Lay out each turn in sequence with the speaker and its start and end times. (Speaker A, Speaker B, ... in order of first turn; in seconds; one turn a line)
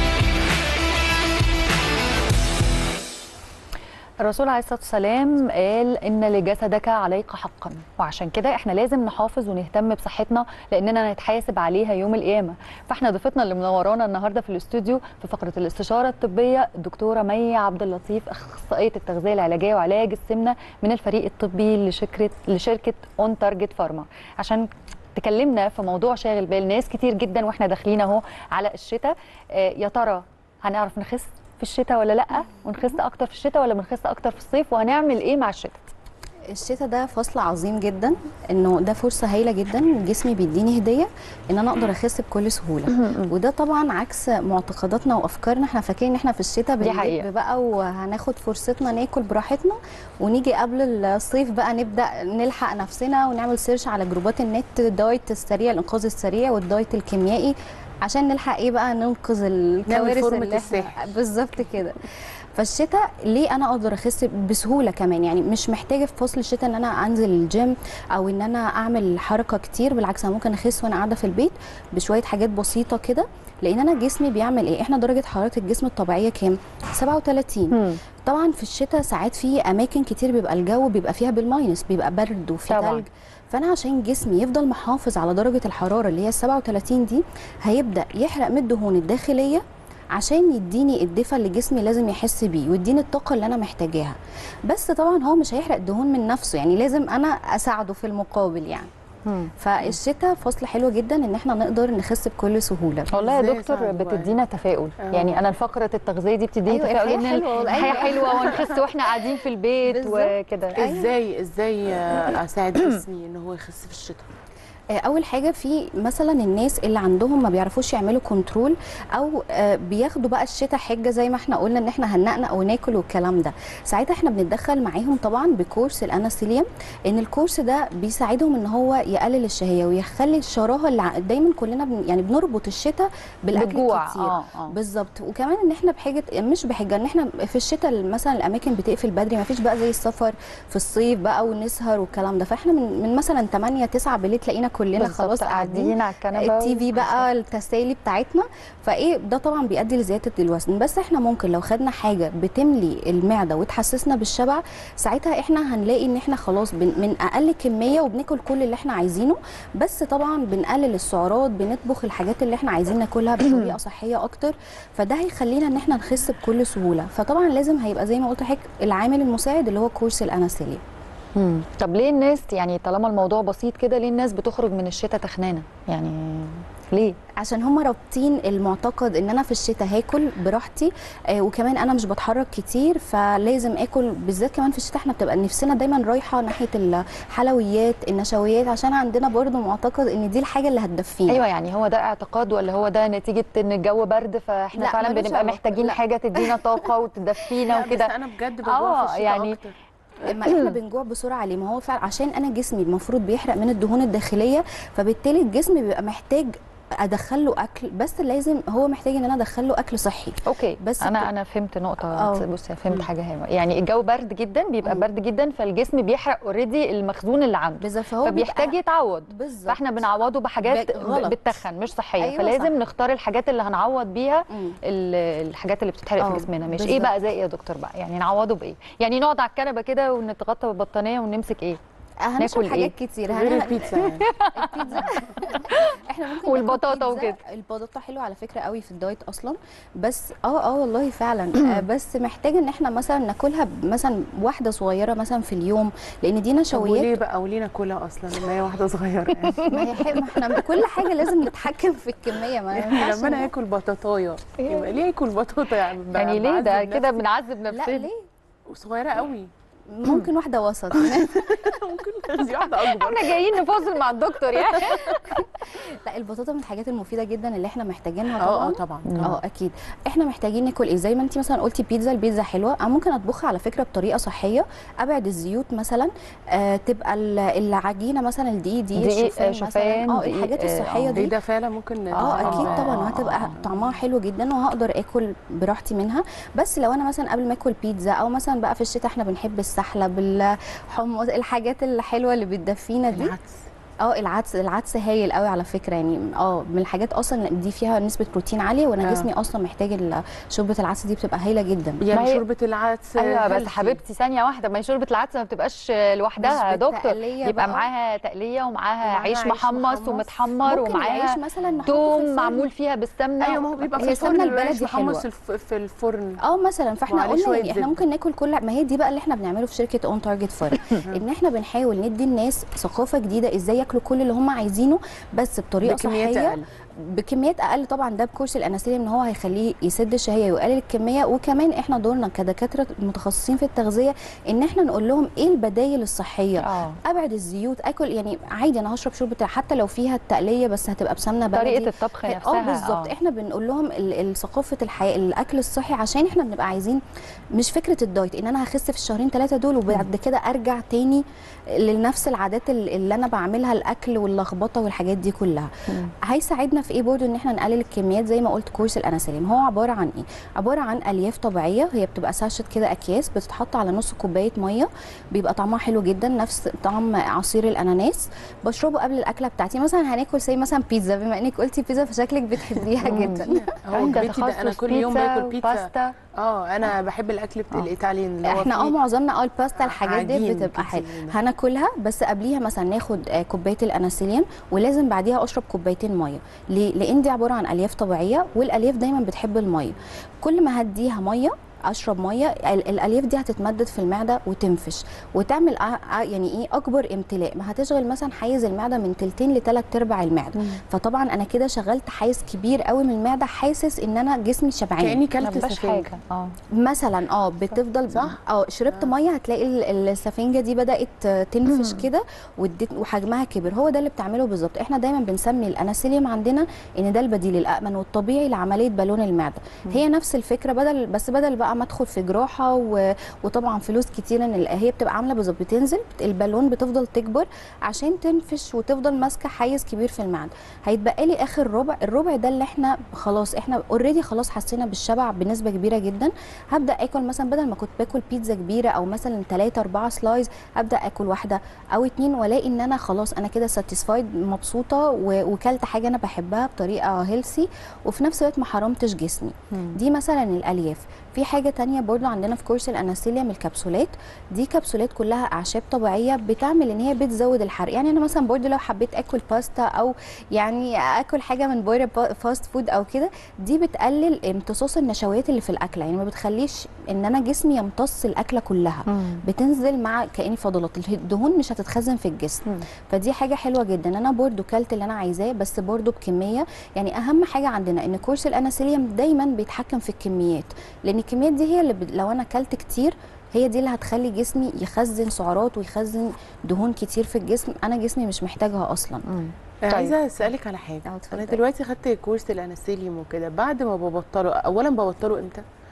Speaker A: 4.2-35.9
Speaker B: 36.5-89.6
Speaker A: 42.9-43.3
Speaker A: 46.8-47.3
Speaker C: 59.9-61.1
Speaker A: 77.7-78.0
Speaker A: 82.7-83.0
Speaker B: 90.1-94.2
Speaker B: 94.7-98.9
Speaker A: 99.2-100.0
Speaker B: 99.6-103.1
Speaker A: 103.1-110.8
Speaker C: 103.1-104.4
Speaker C: 105.0-105.4
Speaker B: 106.7-108.6
Speaker C: 107.7-108.9
Speaker B: 109.9-111.1
Speaker C: 110.7-114.3
Speaker B: 115.0-170.8
Speaker A: 133.5-134.7
Speaker A: 145.0-147.3
Speaker A: 163.4-163.8
Speaker A: 171.3-177.2
Speaker B: 177.4-191.4
Speaker A: 191.3-199.6
Speaker B: 194.7-196.9
Speaker C: 197.7-199.7
Speaker B: 200.2-211.3
Speaker A: 200.4-200.7
Speaker A: 210.4-231.8
Speaker B: 212.1-212.4
Speaker B: 217.8-218.8
Speaker B: 219.3-220.0
Speaker B: 220.6-221.4
Speaker B: 222.2-222.7
Speaker B: 224.5-224.8
Speaker B: 226.2-227.1
Speaker B: 232.2-247.1
Speaker A: 232.4-232.9
Speaker C: 233.3-234.3
Speaker A: 234.2-237.4
Speaker C: 246.7-249.7
Speaker A: 249.5-251.0
Speaker B: 249.7-253.5
Speaker C: 252.7-257.2
Speaker A: 254.6-254.9
Speaker A: 256.1-258.1
Speaker B: 257.7-258.3
Speaker C: 258.7-259.5
Speaker B: 259.9-261.8
Speaker C: 260.9-265.1
Speaker A: 262.8-265.4
Speaker B: 264.8-281.3
Speaker C: 268.4-269.1
Speaker A: 269.1-269.4
Speaker A: 279.0-281.2
Speaker C: 281.1-283.4
Speaker A: 282.2-283.5
Speaker B: 282.2-293.4
Speaker C: 293.1-293.6
Speaker B: 294.0-302.0
Speaker C: 299.0-299.3
Speaker C: 302.0-304.0
Speaker A: 302.1-302.4
Speaker A: 303.2-314.5
Speaker B: 306.4-307.9
Speaker C: 309.0-309.6
Speaker B: 309.3-312.7
Speaker C: 313.4-316.4
Speaker B: 314.0-315.2
Speaker B: 316.4-347.0
Speaker C: 317.1-318.0
Speaker C: 325.8-326.6
Speaker A: 336.6-337.0
Speaker A: 341.5-343.1
Speaker B: 347.6-351.2
Speaker B: 351.8-355.7
Speaker B: 356.2-374.3
Speaker C: 373.0-379.0
Speaker A: 373.1-376.1
Speaker B: 378.4-405.2
Speaker C: 379.8-381.4
Speaker C: 405.0-406.1
Speaker A: 405.4-406.6
Speaker B: 406.8-489.2
Speaker C: 408.1-408.4
Speaker A: 411.7-412.1
Speaker A: 449.7-450.0
Speaker A: 469.1-469.4
Speaker A: 489.2-490.1
Speaker C: 489.9-495.6
Speaker B: 491.1-491.6